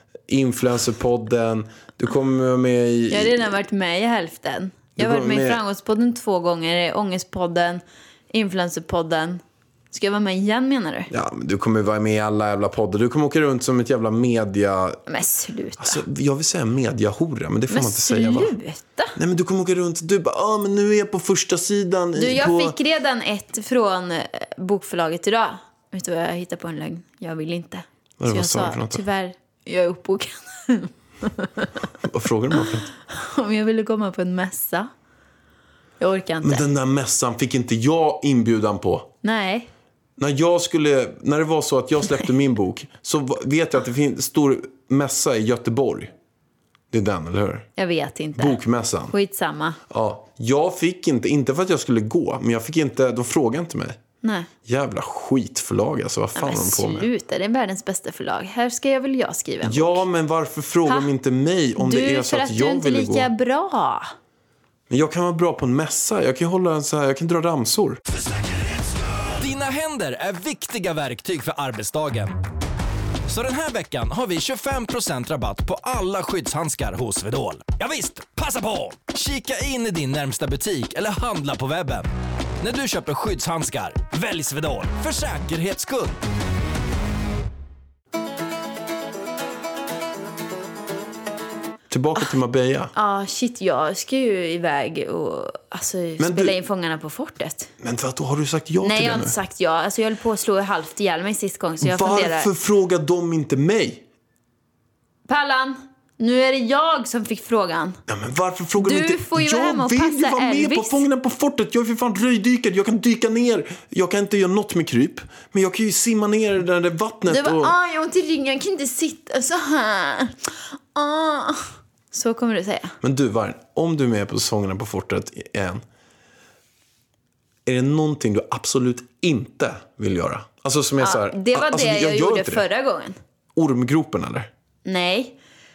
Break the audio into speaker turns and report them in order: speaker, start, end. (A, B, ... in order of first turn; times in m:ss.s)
0:00.3-0:03.5 A
0:03.1-0:11.1 B
0:05.0-0:05.6 A
0:11.1-0:15.0 A
0:15.1-0:16.0 B
0:15.8-0:18.5 A
0:17.7-0:19.2 B
0:19.2-0:22.7 A
0:22.2-0:31.8 B
0:28.2-0:29.0 A
0:32.0-0:32.9 A
0:32.9-0:34.9 B
0:36.0-0:36.6 B
0:36.4-0:39.1 A
0:39.2-0:39.7 B
0:40.2-0:46.1 A
0:46.9-0:47.7 A
0:47.8-0:48.6 B
0:48.4-0:49.1 A
0:49.1-0:49.8 B
0:49.9-0:54.0 A
0:54.2-0:54.5 B
0:54.6-0:57.1 A
0:56.4-1:00.0 B
0:59.6-1:03.3 A
1:01.8-1:04.1 B
1:04.9-1:08.0 A
1:08.5-1:12.4 C
1:13.3-1:22.1 C
1:22.6-1:26.2 C
1:31.9-1:32.9 A
1:32.9-1:37.7 B
1:36.2-1:36.6 A
1:37.8-1:39.3 A
1:38.8-1:42.5 B
1:41.8-1:44.0 A
1:45.3-1:48.0 B
1:48.1-1:57.7 A
1:48.8-1:51.0 B
1:57.3-2:03.0 B
2:03.0-2:05.8 A
2:07.6-2:12.6 A
2:11.0-2:13.2 B
2:13.5-2:14.5 A
2:14.8-2:15.4 B